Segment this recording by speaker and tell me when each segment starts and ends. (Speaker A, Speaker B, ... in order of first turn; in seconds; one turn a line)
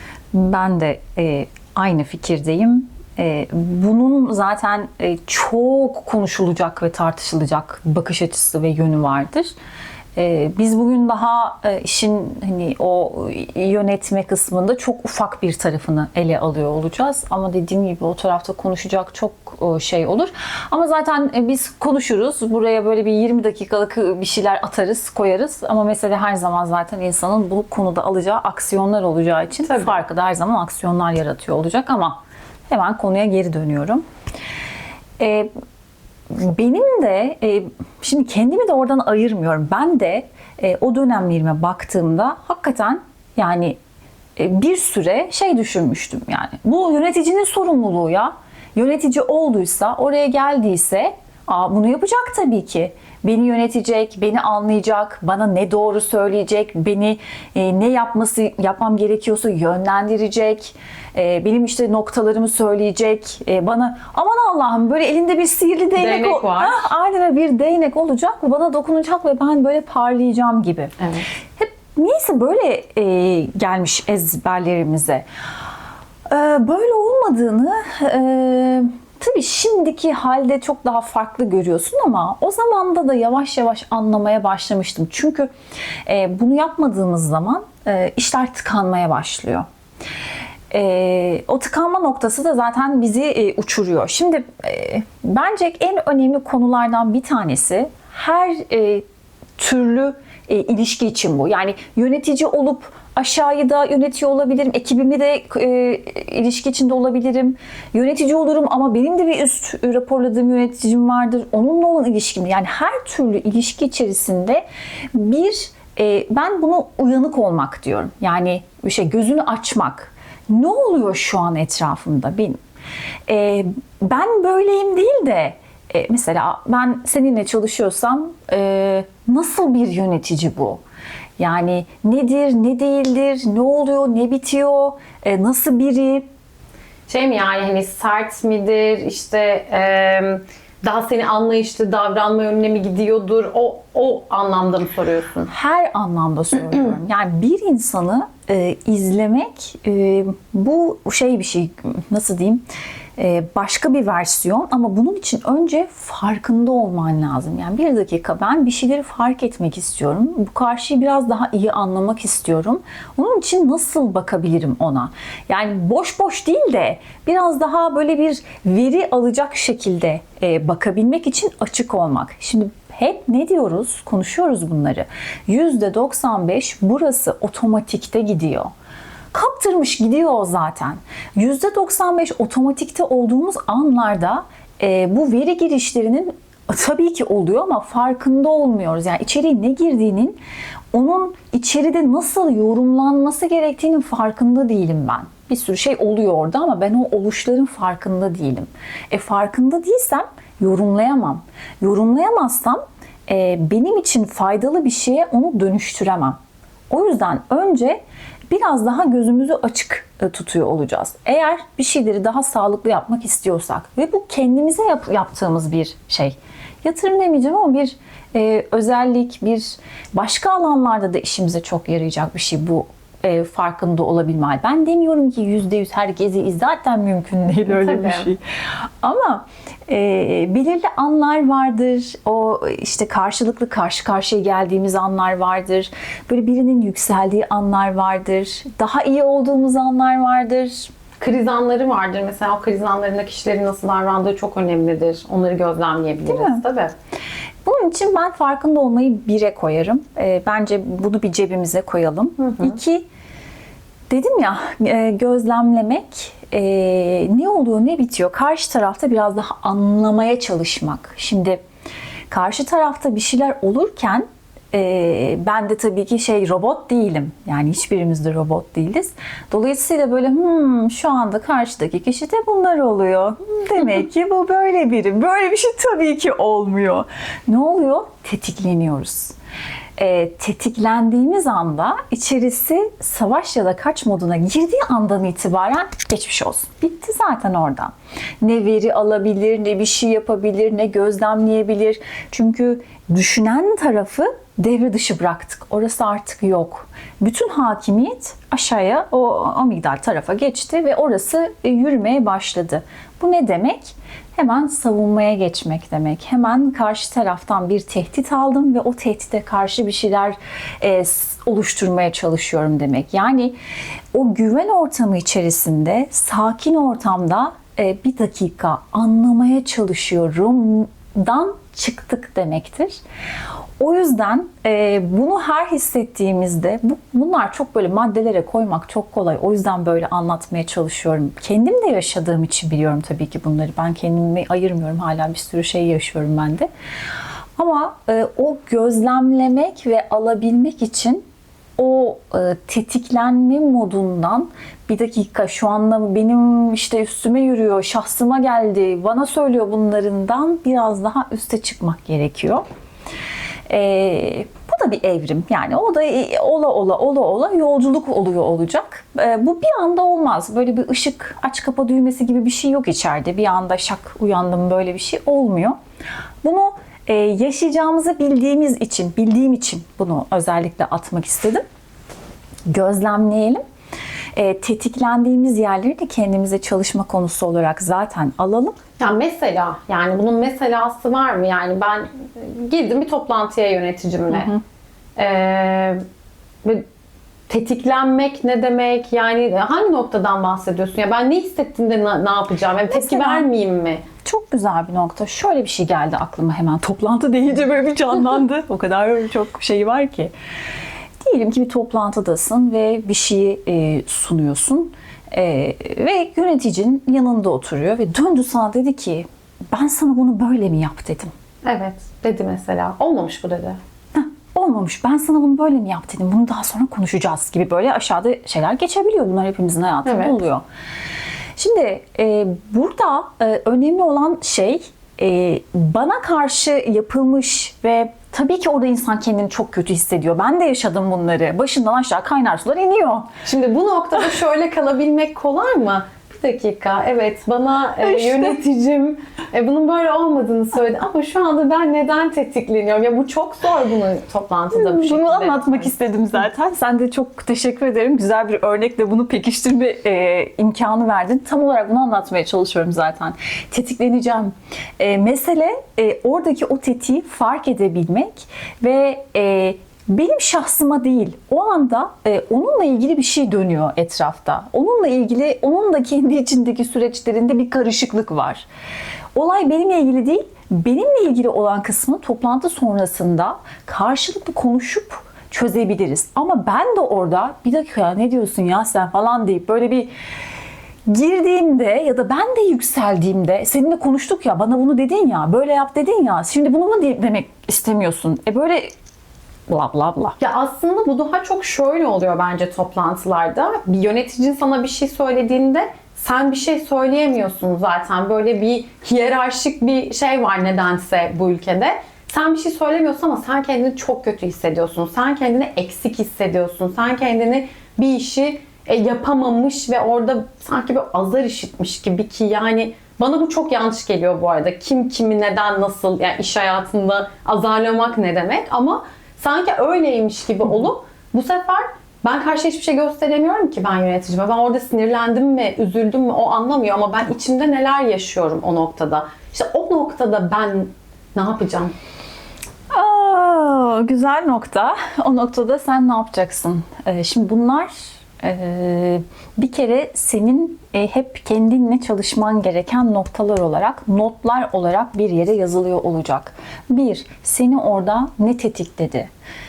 Speaker A: 0.3-9.5
Speaker A: 10.2-34.0
Speaker B: 29.6-30.0
Speaker A: 35.2-35.5
Speaker A: 36.3-43.8
Speaker A: 44.4-70.9
Speaker B: 66.0-66.9
Speaker B: 71.0-71.2
Speaker A: 71.6-75.2
Speaker A: 76.3-85.5
Speaker A: 86.0-89.7
Speaker A: 90.7-99.0
Speaker A: 99.6-114.6
Speaker A: 115.1-122.6
Speaker A: 123.3-130.8
Speaker A: 131.4-136.2
Speaker B: 137.1-145.5
Speaker A: 145.5-152.6
Speaker A: 153.2-178.7
Speaker A: 179.3-190.4
Speaker A: 190.9-206.4
Speaker A: 206.9-228.4
Speaker B: 227.7-228.3
Speaker A: 229.0-240.9
Speaker B: 241.2-246.9
Speaker A: 246.3-246.6
Speaker A: 247.6-253.0
Speaker B: 252.4-252.8
Speaker A: 254.1-261.6
Speaker A: 262.3-279.3
Speaker A: 280.0-313.6
Speaker A: 314.1-323.0
Speaker A: 323.8-336.7
Speaker A: 337.6-341.2
Speaker A: 341.8-352.6
Speaker A: 353.7-365.8
Speaker A: 366.4-371.6
Speaker A: 372.7-373.6
Speaker A: 374.3-378.8
Speaker B: 379.0-384.5
Speaker A: 384.3-384.6
Speaker B: 385.1-386.0
Speaker B: 387.5-394.0
Speaker A: 392.9-393.4
Speaker A: 394.2-400.3
Speaker A: 401.2-411.3
Speaker B: 411.6-413.8
Speaker A: 414.1-420.6
Speaker B: 420.0-420.3
Speaker A: 421.6-433.3
Speaker B: 433.4-445.9
Speaker A: 438.0-438.6
Speaker A: 444.7-468.6
Speaker A: 469.3-480.1
Speaker A: 481.1-488.9
Speaker A: 489.7-490.4
Speaker B: 490.4-531.9
Speaker A: 532.9-549.3